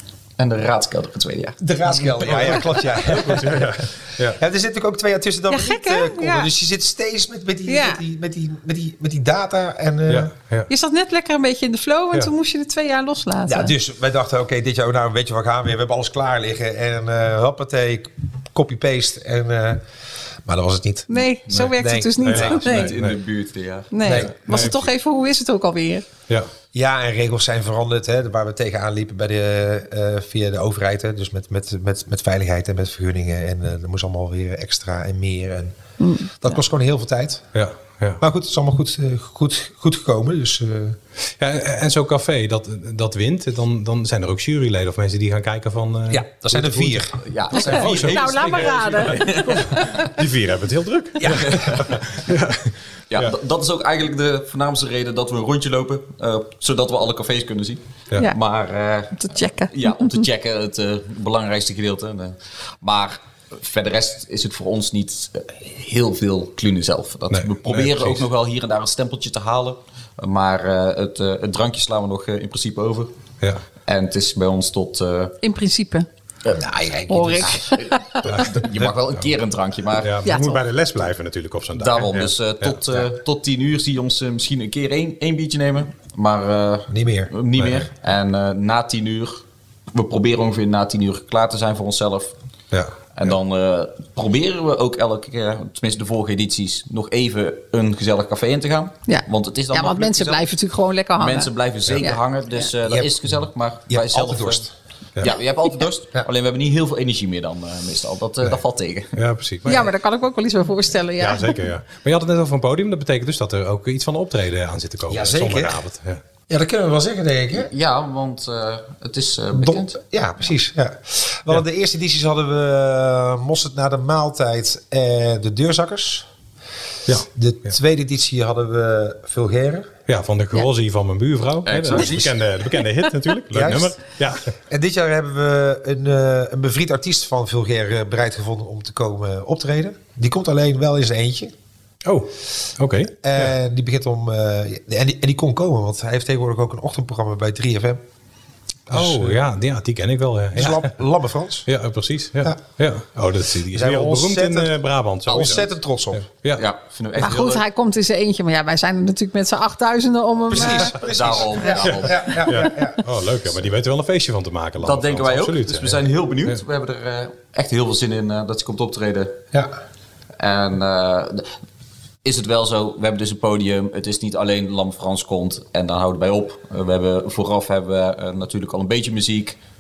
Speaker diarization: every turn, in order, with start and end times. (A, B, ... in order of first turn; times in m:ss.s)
0:00.4-0:01.6 A
0:01.6-0:10.3 B
0:02.0-0:04.4 C
0:05.5-0:06.5 D
0:07.7-0:08.0 D
0:10.1-0:10.7 C
0:10.7-0:13.7 D
0:13.5-0:19.8 B
0:20.4-0:22.7 B
0:21.1-0:22.9 D
0:21.5-0:23.2 C
0:22.4-0:24.2 A
0:23.9-0:26.1 D
0:24.0-0:24.3 B
0:24.1-0:24.9 C
0:26.7-0:35.8 B
0:36.0-0:36.3 D
0:36.4-0:37.5 B
0:37.5-0:38.2 C
0:38.2-0:41.0 B
0:41.4-0:53.3 C
0:46.1-0:47.2 B
0:47.2-0:49.9 A
0:47.5-0:50.1 D
0:51.2-0:51.7 B
0:51.3-0:52.2 A
0:53.1-1:13.1 A
0:59.2-1:00.2 D
1:07.3-1:08.2 C
1:13.9-1:15.4 A
1:15.4-1:16.1 D
1:16.5-1:17.6 B
1:17.1-1:18.2 D
1:17.4-1:20.2 A
1:18.2-1:19.2 C
1:20.0-1:23.0 C
1:20.2-1:20.6 D
1:21.8-1:32.4 A
1:26.9-1:27.3 B
1:27.6-1:27.9 C
1:33.2-1:40.5 A
1:39.1-1:42.7 D
1:41.2-1:44.7 A
1:43.9-1:44.7 B
1:45.2-1:49.2 A
1:49.1-1:49.9 C
1:49.7-1:51.6 D
1:51.2-1:56.2 C
1:55.1-1:55.8 B
1:56.5-1:57.7 B
1:57.5-2:00.0 A
1:59.6-2:06.3 B
2:07.3-2:09.9 B
2:10.1-2:14.5 C
2:11.6-2:12.4 A
2:13.5-2:14.0 B
2:14.7-2:21.5 B
2:22.0-2:23.5 C
2:23.2-2:28.0 B
2:28.9-2:29.4 B
2:28.9-2:30.9 C
2:30.5-2:31.7 B
2:31.7-2:36.7 C
2:33.7-2:34.7 B
2:35.3-2:35.6 A
2:35.3-2:36.2 B
2:36.5-2:37.6 A
2:37.2-2:41.0 D
2:40.5-2:43.0 B
2:41.0-2:42.5 A
2:42.4-2:46.6 C
2:44.8-2:49.4 A
2:50.4-2:51.6 A
2:52.2-2:59.6 A